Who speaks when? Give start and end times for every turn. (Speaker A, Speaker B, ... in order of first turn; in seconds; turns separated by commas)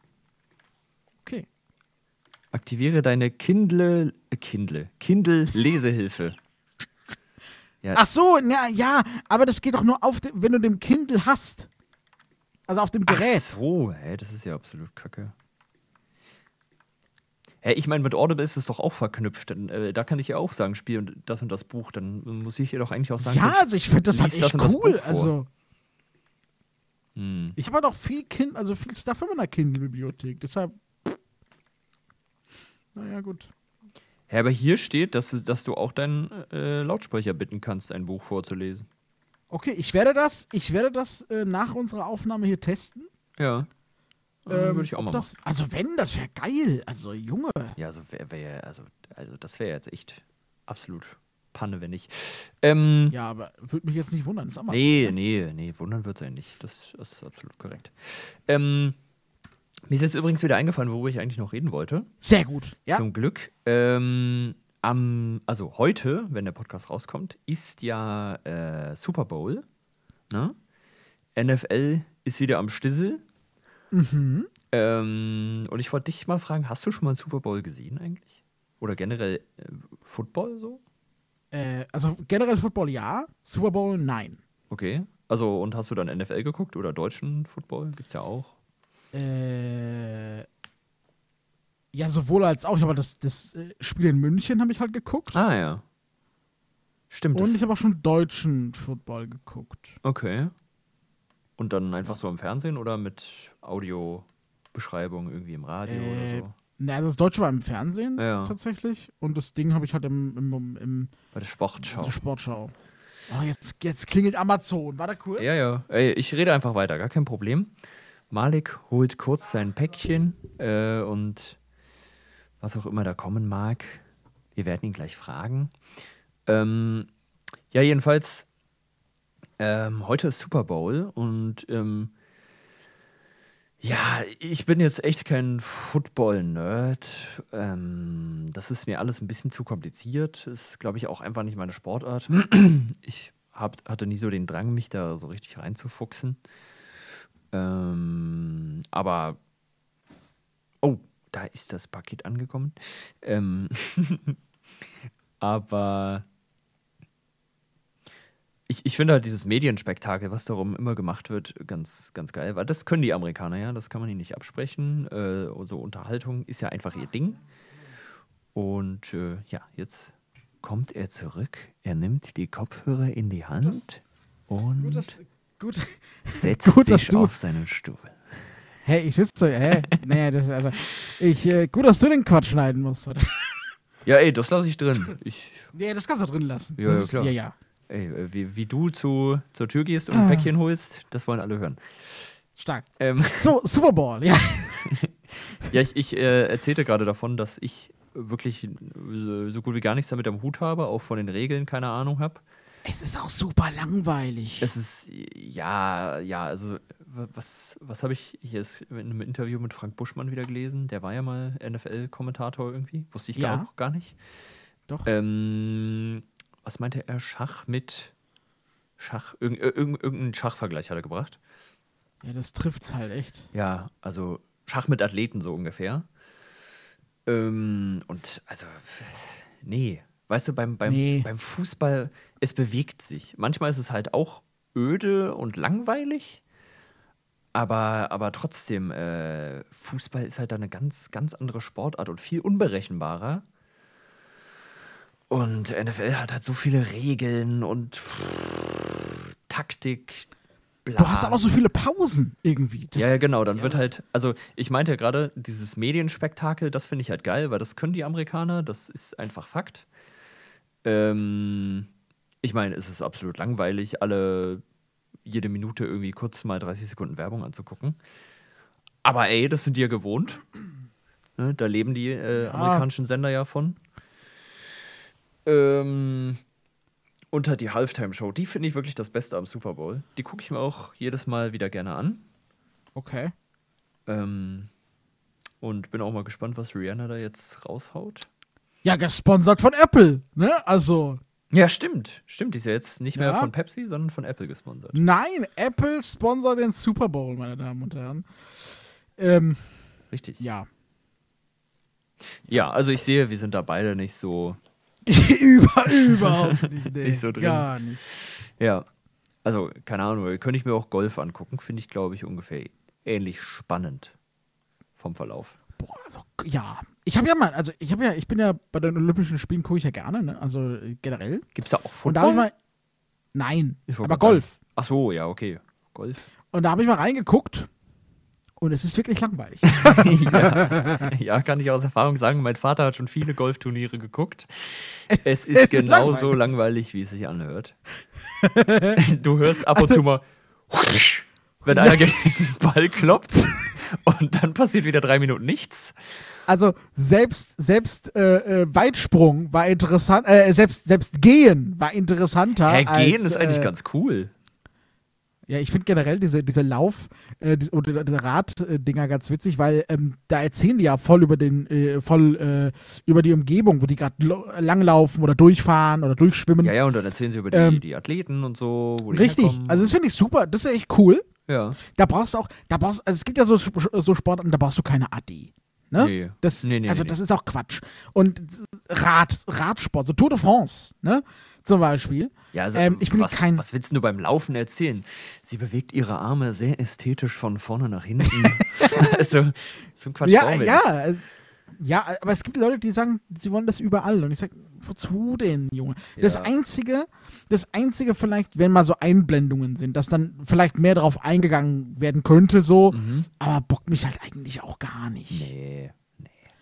Speaker A: 2.5-6.4, Speaker B: 7.9-11.7, Speaker B: 12.7-13.5, Speaker A: 13.1-15.3, Speaker A: 17.6-25.3, Speaker B: 23.2-25.5, Speaker A: 27.1-27.6, Speaker B: 27.6-31.1, Speaker B: 32.9-33.5, Speaker A: 34.3-38.9, Speaker B: 39.5-43.1, Speaker A: 43.4-43.7, Speaker A: 44.5-45.3, Speaker B: 44.5-47.8, Speaker A: 47.8-53.1, Speaker B: 53.1-55.1, Speaker A: 54.7-59.0, Speaker A: 59.9-62.1, Speaker B: 62.2-63.0, Speaker A: 62.9-69.6, Speaker A: 70.3-70.5, Speaker A: 71.3-73.2, Speaker B: 73.9-74.5, Speaker A: 74.7-80.8, Speaker B: 81.5-84.4, Speaker A: 84.7-88.5, Speaker B: 89.1-90.5, Speaker B: 91.9-95.4, Speaker A: 95.3-95.8, Speaker A: 97.1-97.6, Speaker B: 97.3-100.0, Speaker A: 100.0-100.5, Speaker A: 101.6-106.5, Speaker B: 105.8-111.1, Speaker A: 108.2-108.5, Speaker A: 111.3-112.2, Speaker B: 111.8-112.7, Speaker B: 113.3-115.5, Speaker A: 115.4-117.7, Speaker A: 118.3-121.6, Speaker A: 122.6-124.0, Speaker A: 124.5-125.7, Speaker A: 126.5-127.1, Speaker A: 127.7-128.5, Speaker A: 129.6-132.1, Speaker A: 133.8-146.4, Speaker A: 147.5-149.4, Speaker A: 150.8-154.4, Speaker A: 155.4-156.2, Speaker A: 158.7-167.4, Speaker A: 168.5-175.1, Speaker B: 174.8-177.3, Speaker A: 176.4-178.2, Speaker B: 178.8-183.4, Speaker A: 184.0-185.7, Speaker B: 185.7-187.5, Speaker A: 186.8-187.3, Speaker A: 187.9-192.3, Speaker B: 190.1-190.5, Speaker B: 192.6-194.9, Speaker A: 193.0-193.5, Speaker A: 194.7-202.4, Speaker B: 202.8-204.7, Speaker A: 204.6-214.2, Speaker B: 213.3-213.7, Speaker A: 215.1-218.1, Speaker A: 219.0-221.4, Speaker B: 222.2-223.5, Speaker A: 223.5-226.1, Speaker A: 227.2-236.4, Speaker B: 230.8-231.3, Speaker A: 237.5-243.4, Speaker A: 245.3-250.3, Speaker A: 250.8-251.4, Speaker B: 251.0-253.8, Speaker A: 252.9-259.9, Speaker A: 260.8-261.9, Speaker A: 262.4-264.6, Speaker A: 265.2-268.0, Speaker A: 269.0-270.4, Speaker A: 271.4-273.8, Speaker B: 272.4-272.9, Speaker A: 275.4-276.4, Speaker A: 277.3-282.2, Speaker B: 282.9-283.3, Speaker A: 284.1-284.7, Speaker A: 285.6-288.3, Speaker B: 288.8-291.2, Speaker A: 291.5-295.0, Speaker B: 293.1-293.5, Speaker B: 294.9-298.2, Speaker B: 299.2-299.6, Speaker A: 300.1-300.4, Speaker B: 300.4-300.7, Speaker A: 302.4-304.6, Speaker B: 305.1-308.0, Speaker A: 305.9-308.9, Speaker A: 309.4-314.1, Speaker A: 315.0-315.6, Speaker B: 315.8-321.5, Speaker A: 321.5-322.5, Speaker B: 322.0-322.5, Speaker B: 323.3-324.5, Speaker A: 323.9-326.2, Speaker B: 326.5-327.7, Speaker B: 328.6-331.1, Speaker A: 329.7-337.8, Speaker B: 335.1-336.4, Speaker B: 338.4-339.0, Speaker A: 338.9-345.9, Speaker B: 339.7-340.0, Speaker B: 341.7-342.1, Speaker B: 346.5-353.7, Speaker A: 352.6-354.3, Speaker B: 355.5-366.8, Speaker A: 366.6-369.9, Speaker B: 367.5-367.8, Speaker B: 369.1-371.2, Speaker A: 371.5-371.8, Speaker B: 371.8-383.6, Speaker A: 376.0-377.2, Speaker A: 382.5-390.8, Speaker B: 388.5-389.1, Speaker B: 390.2-405.5, Speaker A: 396.2-396.5, Speaker A: 402.9-403.3, Speaker A: 405.3-406.3